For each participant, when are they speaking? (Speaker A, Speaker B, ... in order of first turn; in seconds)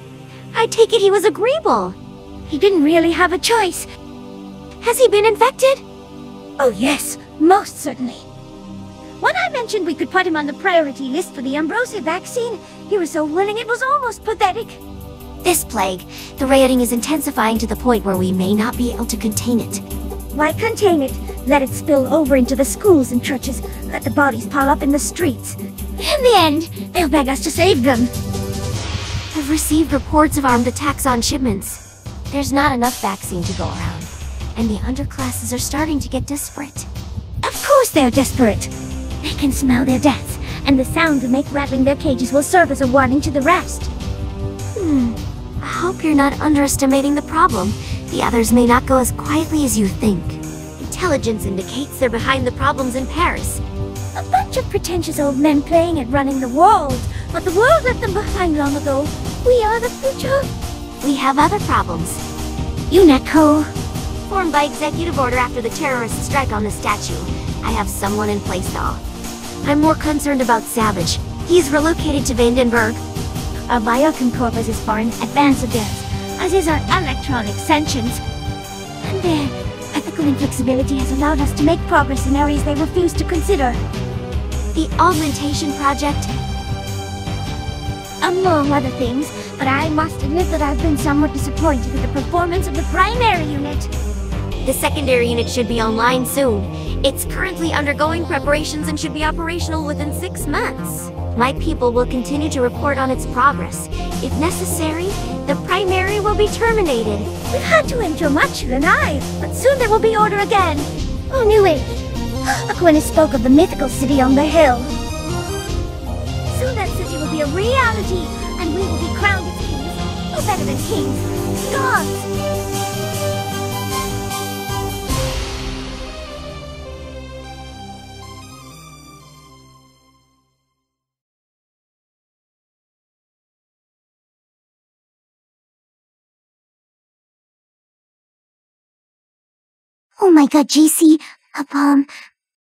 Speaker A: 0.5-2.0, 4.8-5.8, 15.4-19.8, 29.3-36.9, 44.8-53.6, 61.0-62.2, 64.3-69.0, 69.6-73.0, 84.7-86.3, 94.6-107.3
Speaker B: 2.5-3.9, 6.6-8.3, 9.2-14.8, 20.3-28.1, 37.4-43.9, 54.1-60.5, 62.9-63.7, 73.7-78.2, 79.0-83.8, 88.2-93.9, 107.5-114.9, 116.5-122.3, 140.2-142.1